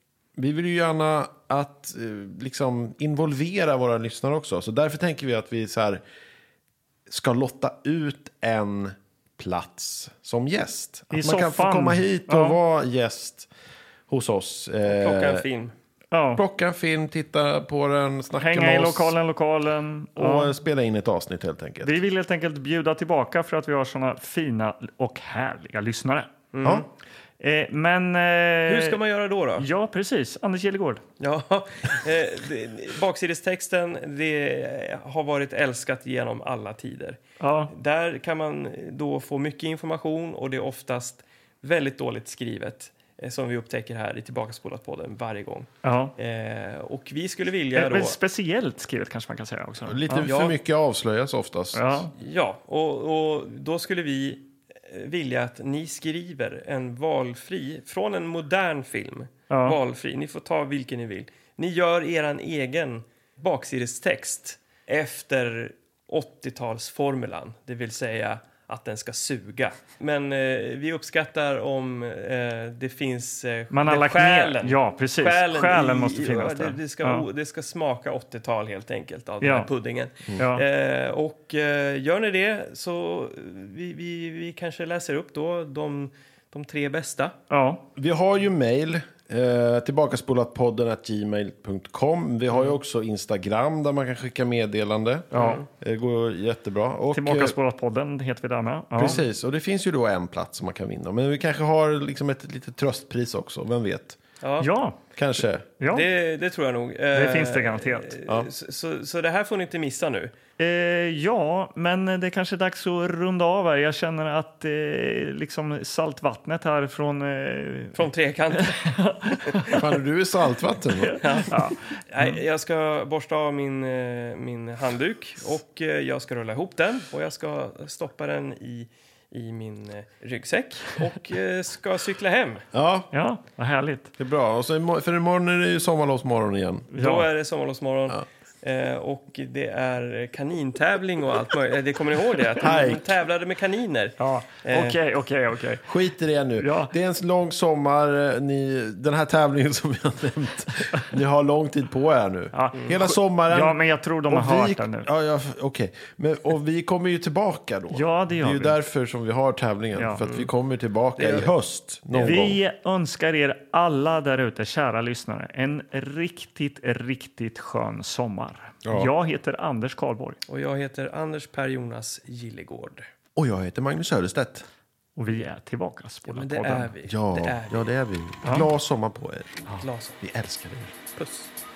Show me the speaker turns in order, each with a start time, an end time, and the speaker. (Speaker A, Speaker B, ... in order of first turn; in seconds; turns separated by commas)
Speaker A: 0.4-6.0, Speaker A: 7.1-13.5, Speaker B: 11.1-12.6, Speaker A: 14.1-15.4, Speaker C: 14.8-15.7, Speaker B: 16.1-16.4, Speaker A: 16.4-19.1, Speaker B: 18.3-20.5, Speaker A: 20.1-22.0, Speaker B: 21.8-26.4, Speaker C: 26.5-26.9, Speaker B: 27.4-29.0, Speaker C: 28.7-29.6, Speaker B: 29.6-31.0, Speaker C: 31.2-37.2, Speaker B: 37.4-37.7, Speaker C: 37.7-48.1, Speaker B: 45.8-46.1, Speaker B: 47.7-50.3, Speaker A: 49.9-52.0, Speaker C: 50.2-50.5, Speaker B: 51.7-52.1, Speaker C: 52.1-87.3, Speaker B: 59.5-59.8, Speaker B: 73.7-77.2, Speaker B: 79.4-79.7, Speaker B: 80.3-80.6, Speaker B: 87.5-87.8, Speaker A: 88.0-97.5, Speaker B: 95.3-95.6, Speaker C: 95.3-95.7, Speaker B: 97.1-99.2, Speaker A: 98.9-104.2, Speaker C: 104.4-104.7, Speaker B: 104.6-105.0, Speaker A: 105.2-105.7, Speaker B: 105.8-106.0, Speaker C: 105.9-110.3, Speaker B: 107.1-108.1, Speaker B: 110.6-118.0, Speaker C: 117.9-119.7, Speaker B: 118.6-119.8, Speaker A: 119.7-121.2, Speaker B: 121.0-122.2, Speaker C: 121.2-132.7, Speaker A: 132.7-133.1, Speaker B: 133.1-134.1, Speaker A: 134.2-136.9, Speaker B: 136.9-137.2, Speaker C: 136.9-145.0, Speaker A: 142.6-143.0, Speaker B: 144.2-145.8, Speaker A: 145.8-162.6, Speaker B: 146.6-146.9, Speaker B: 152.5-155.1, Speaker B: 157.9-158.8, Speaker B: 159.9-160.2, Speaker C: 160.2-160.5, Speaker C: 161.2-161.5, Speaker B: 162.2-170.4, Speaker A: 168.8-169.1, Speaker C: 170.5-173.1, Speaker A: 173.3-174.7, Speaker B: 175.2-176.9, Speaker C: 176.3-177.9, Speaker A: 177.0-179.7, Speaker B: 178.4-178.7, Speaker C: 179.8-180.2, Speaker A: 180.2-180.9, Speaker C: 181.2-181.5